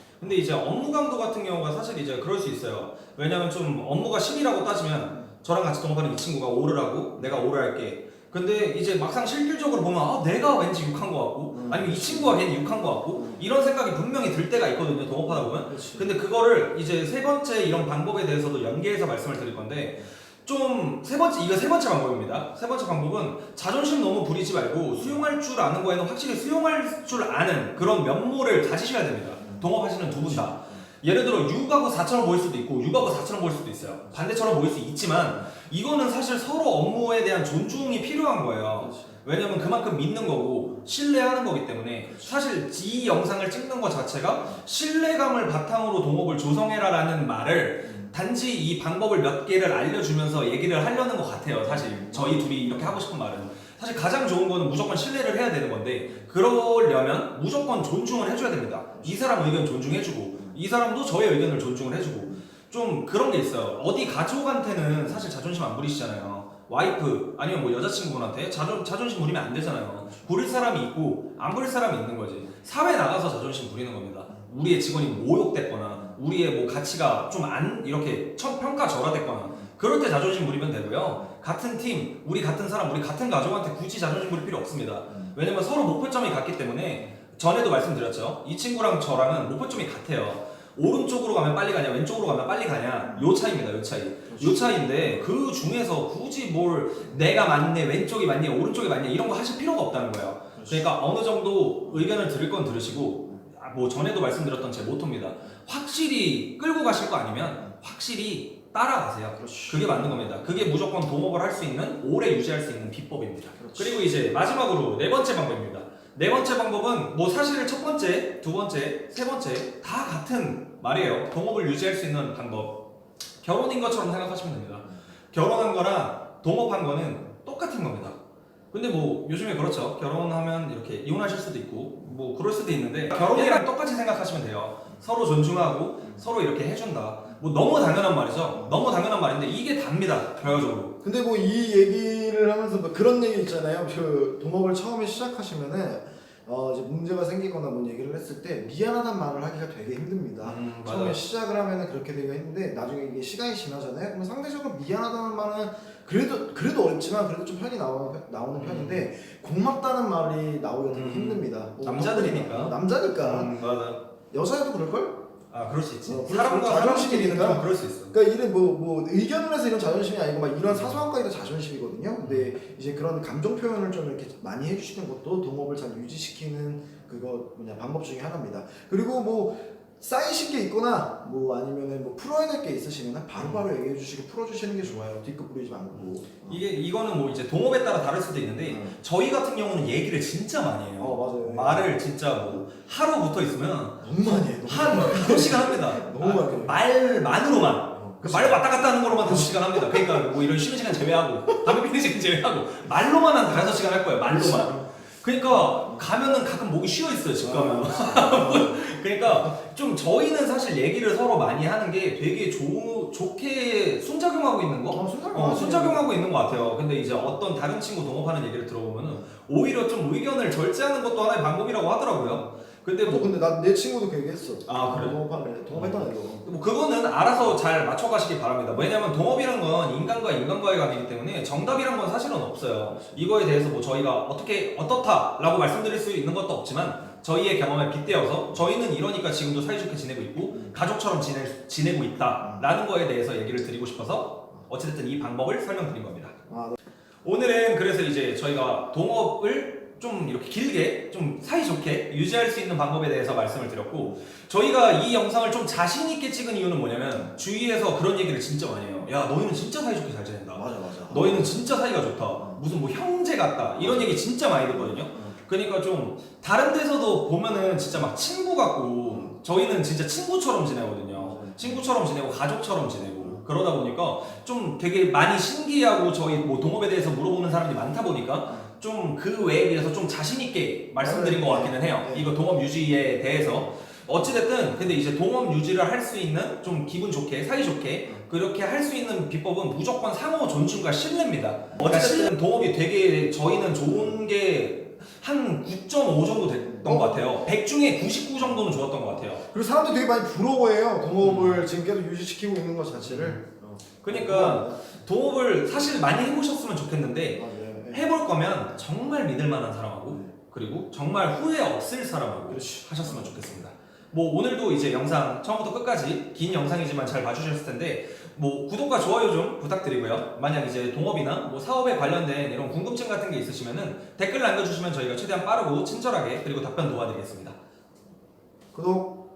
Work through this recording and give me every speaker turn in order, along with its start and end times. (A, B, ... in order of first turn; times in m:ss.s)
0:00.2-2:02.8 A
0:11.5-0:12.4 B
0:13.1-0:13.4 B
0:15.3-0:16.1 B
0:29.4-0:30.8 B
0:38.8-0:39.2 B
0:42.1-0:42.3 B
0:47.8-0:48.2 B
0:51.7-0:53.0 B
1:25.1-1:25.4 B
1:34.3-1:35.3 B
1:40.6-1:40.9 B
1:41.9-1:42.1 B
1:49.4-1:50.4 B
1:53.6-1:54.0 B
2:03.4-2:08.2 A
2:08.7-2:20.9 A
2:21.0-2:43.5 B
2:30.4-2:31.2 A
2:38.6-2:39.1 A
2:40.9-2:44.0 A
2:44.3-2:45.2 B
2:45.5-2:48.1 A
2:46.0-3:06.6 B
2:50.6-2:51.0 A
2:52.2-2:52.5 A
3:03.4-3:03.6 A
3:06.5-3:14.0 A
3:08.7-3:09.0 B
3:11.0-3:11.9 B
3:14.0-3:16.8 B
3:14.7-3:43.3 A
3:17.7-3:20.3 B
3:21.5-3:21.8 B
3:24.3-3:25.0 B
3:25.5-3:26.0 B
3:27.4-3:29.5 B
3:34.9-3:36.7 B
3:42.2-3:46.5 B
3:44.7-3:45.2 A
3:45.7-4:06.4 A
4:02.4-4:02.7 B
4:06.5-4:06.8 B
4:07.2-4:59.4 A
4:20.5-4:21.6 B
4:23.8-4:24.1 B
4:24.7-4:25.4 B
4:29.0-4:29.4 B
4:31.1-4:31.9 B
4:41.0-4:42.3 B
4:51.8-4:52.3 B
4:56.6-4:57.3 B
4:59.4-5:05.0 B
5:01.2-5:01.7 A
5:03.1-5:03.4 A
5:04.0-5:27.6 A
5:07.3-5:08.1 B
5:12.5-5:13.6 B
5:28.7-5:29.2 B